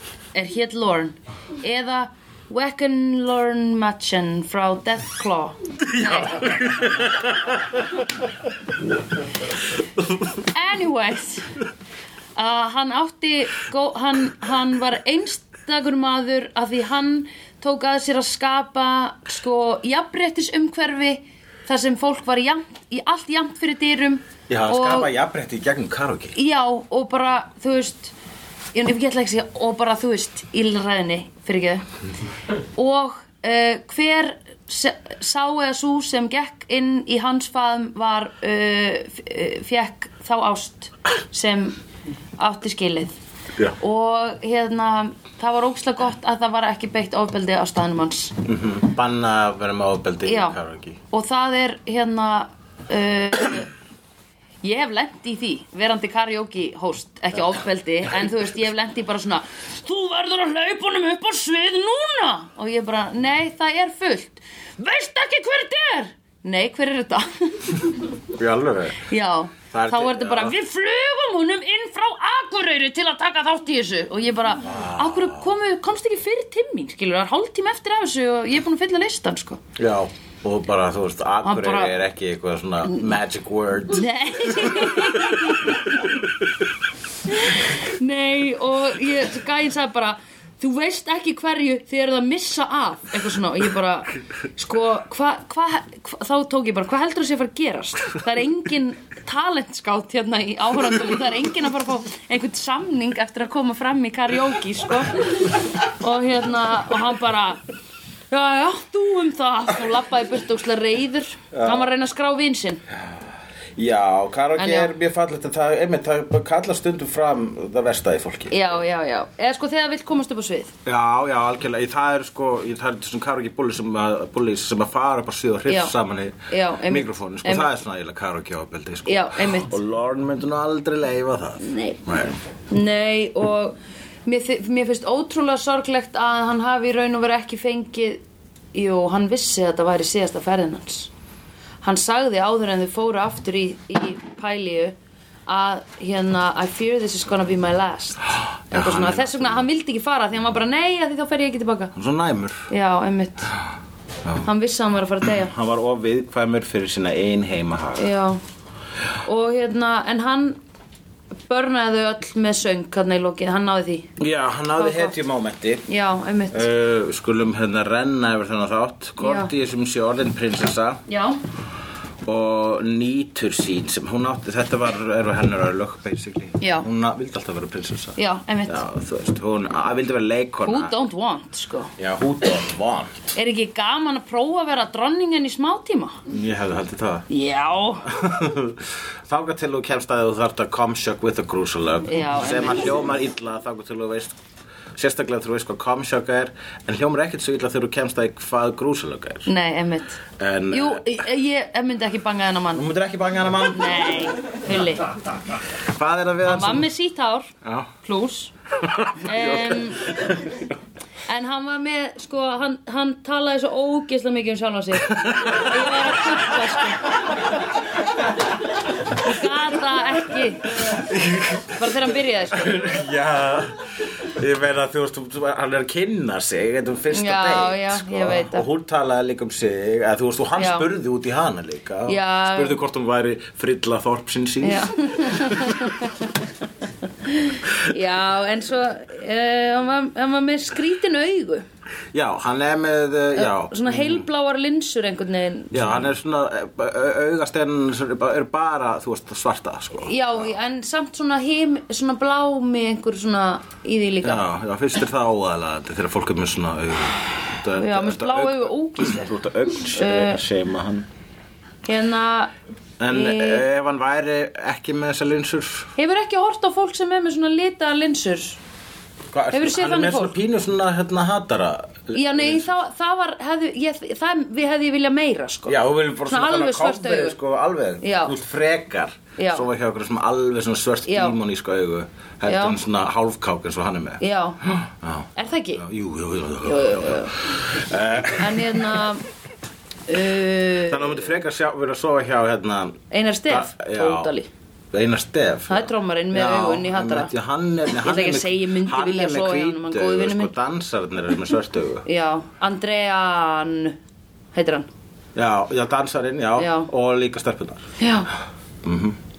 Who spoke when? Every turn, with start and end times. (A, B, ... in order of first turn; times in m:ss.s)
0:00.3-0:06.6 A
0:05.9-0:07.6 B
0:10.3-0:11.6 A
0:12.4-0:25.1 A
0:24.5-0:26.4 B
0:26.4-0:28.1 A
0:28.7-0:31.8 A
0:32.8-0:41.8 A
0:42.4-0:43.2 A
0:43.8-0:48.4 A
0:48.5-0:51.0 B
0:50.2-0:50.6 A
0:51.1-0:53.7 A
0:54.6-1:08.0 A
1:08.3-1:09.1 B
1:09.0-1:19.6 A
1:09.7-1:10.6 B
1:14.6-1:15.5 B
1:19.8-1:25.7 B
1:21.4-1:22.0 A
1:23.9-1:26.1 A
1:27.3-1:47.6 A
1:48.3-1:52.8 A
1:51.5-1:51.9 B
1:52.9-1:58.6 B
1:54.6-1:54.9 A
1:58.5-2:00.8 A
2:00.8-2:12.4 B
2:05.7-2:06.0 A
2:06.5-2:07.7 A
2:09.1-2:09.7 A
2:11.6-2:12.0 A
2:12.7-2:18.2 A
2:18.7-2:21.1 A
2:21.8-2:25.0 A
2:25.5-2:31.9 A
2:28.7-2:29.7 B
2:31.9-2:32.7 B
2:32.7-2:33.5 A
2:34.4-2:35.5 A
2:35.2-2:38.1 B
2:38.0-2:38.4 A
2:39.2-2:40.6 A
2:41.5-2:44.1 A
2:44.2-2:45.8 B
2:44.8-2:45.2 A
2:45.9-2:46.7 A
2:46.5-2:51.0 B
2:49.2-2:49.5 A
2:51.1-2:51.4 A
2:52.2-3:00.9 B
2:56.6-2:56.9 A
2:58.2-2:58.8 A
3:00.7-3:01.9 A
3:02.0-3:03.3 B
3:03.4-3:06.2 A
3:06.3-3:07.3 B
3:07.3-3:08.1 A
3:08.0-3:14.4 B
3:12.1-3:12.9 A
3:15.0-3:19.5 B
3:19.5-3:22.9 A
3:20.4-3:21.1 B
3:22.7-3:24.1 B
3:23.6-3:25.1 A
3:25.9-3:26.9 B
3:26.4-3:28.5 A
3:27.6-3:27.9 B
3:28.8-3:30.5 B
3:29.2-3:30.1 A
3:31.3-3:37.4 A
3:35.2-3:36.0 B
3:39.1-3:40.8 A
3:40.9-3:41.8 B
3:41.7-3:42.8 A
3:42.5-3:55.8 B
3:47.1-3:48.7 A
3:50.6-3:50.9 A
3:52.1-3:52.8 A
3:54.6-3:56.3 A
3:57.2-4:01.6 A
4:02.1-4:04.2 B
4:03.4-4:06.0 A
4:05.7-4:10.3 B
4:10.0-4:14.4 A
4:14.2-4:21.1 B
4:17.8-4:19.3 A
4:19.9-4:20.4 A
4:21.8-4:22.5 A
4:23.0-4:25.9 B
4:23.1-4:23.6 A
4:26.0-4:28.6 A
4:29.3-4:32.7 B
4:29.5-4:30.4 A
4:32.1-4:37.4 A
4:35.7-4:49.0 B
4:38.0-4:38.4 A
4:39.4-4:39.7 A
4:41.1-4:41.4 A
4:42.5-4:42.8 A
4:44.2-4:44.7 A
4:45.4-4:45.8 A
4:46.6-4:47.5 A
4:48.4-4:49.2 A
4:50.1-4:51.2 A
4:50.9-4:54.3 B
4:53.1-4:54.5 A
4:54.9-5:02.1 B
4:55.7-4:57.3 A
4:58.0-5:00.5 A
5:02.1-5:04.0 A
5:04.5-5:04.9 A
5:05.4-5:07.8 B
5:06.6-5:06.9 A
5:08.0-5:08.3 A
5:08.8-5:09.2 B